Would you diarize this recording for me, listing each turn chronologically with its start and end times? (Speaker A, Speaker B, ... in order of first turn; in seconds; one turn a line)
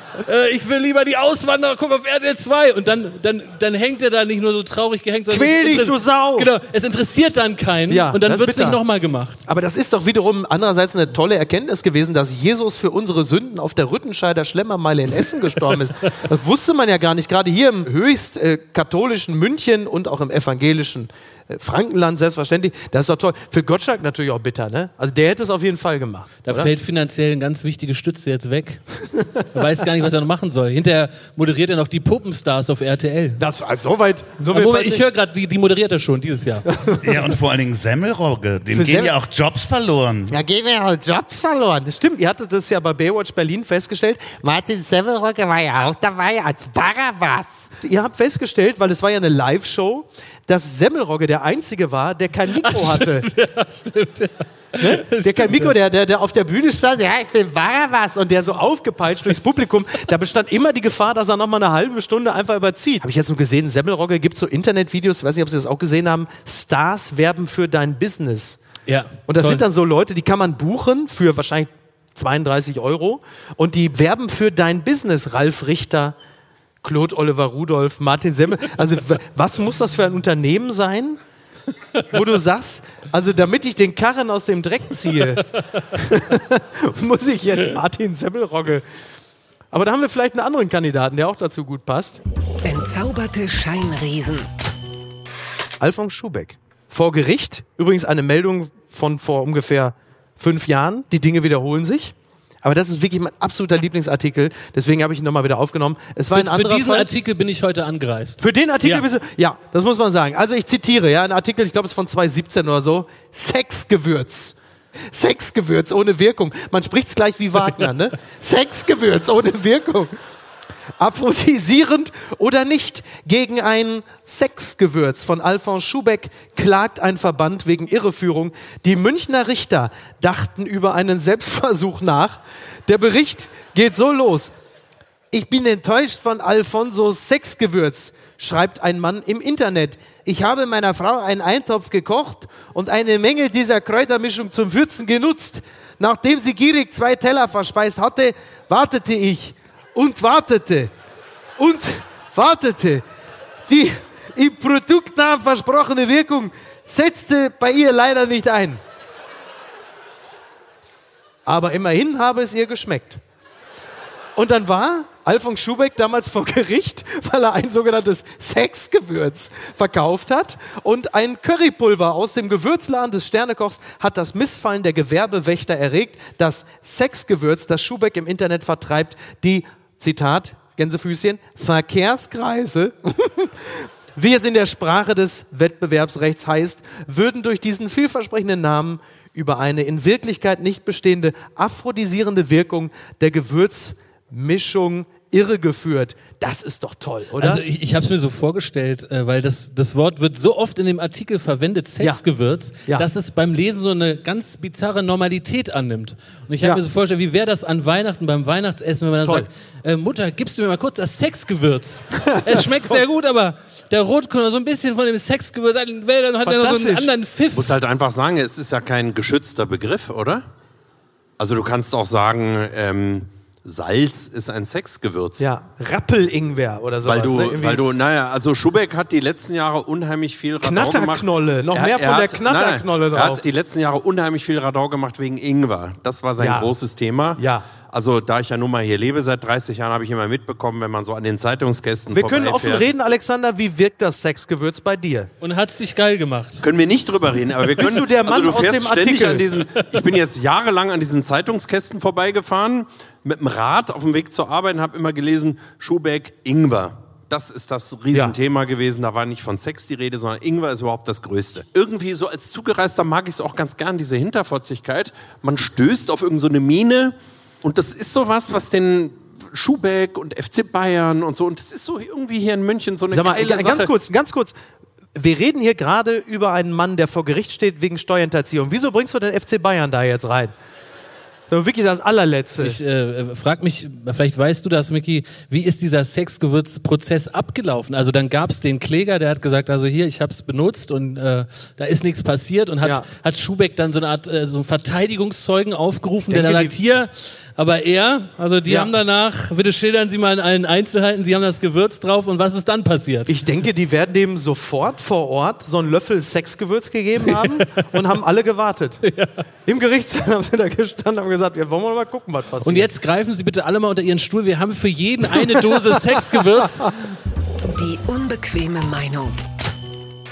Speaker A: 0.2-9.4
Speaker B: 5.3-6.5
Speaker B: 7.9-8.8
Speaker B: 9.4-26.7
Speaker A: 26.4-28.9
Speaker A: 29.5-33.4
Speaker B: 33.4-35.0
Speaker A: 34.5-36.7
Speaker B: 36.7-37.0
Speaker C: 37.0-40.4
Speaker B: 38.7-39.1
Speaker B: 40.3-53.3
Speaker A: 52.5-55.7
Speaker B: 54.8-68.6
Speaker A: 68.9-69.6
Speaker B: 69.3-76.2
Speaker B: 76.8-81.2
Speaker B: 82.1-88.8
Speaker B: 89.7-92.2
Speaker D: 92.6-94.5
Speaker B: 95.8-107.1
Speaker A: 106.3-109.0
Speaker B: 108.4-114.5
Speaker B: 115.1-120.1
Speaker B: 121.0-134.5
Speaker B: 135.3-150.9
Speaker B: 151.6-153.0
Speaker B: 153.6-158.8
Speaker B: 161.4-163.2
Speaker B: 164.3-197.6
Speaker A: 197.4-217.7
Speaker B: 212.2-212.9
Speaker B: 216.4-217.1
Speaker E: 217.5-220.4
Speaker E: 221.4-225.4
Speaker B: 225.4-227.8
Speaker E: 227.0-242.9
Speaker B: 230.6-233.4
Speaker B: 236.4-236.7
Speaker B: 237.4-237.7
Speaker B: 242.1-245.3
Speaker A: 245.4-246.6
Speaker E: 246.6-273.9
Speaker B: 247.8-249.4
Speaker B: 273.1-274.5
Speaker B: 275.1-280.5
Speaker B: 281.5-282.8
Speaker A: 282.6-303.3
Speaker B: 296.3-296.7
Speaker B: 298.7-298.9
Speaker B: 303.3-309.0
Speaker A: 307.2-307.9
Speaker A: 309.0-309.4
Speaker B: 309.7-312.9
Speaker A: 312.6-317.0
Speaker D: 317.7-319.4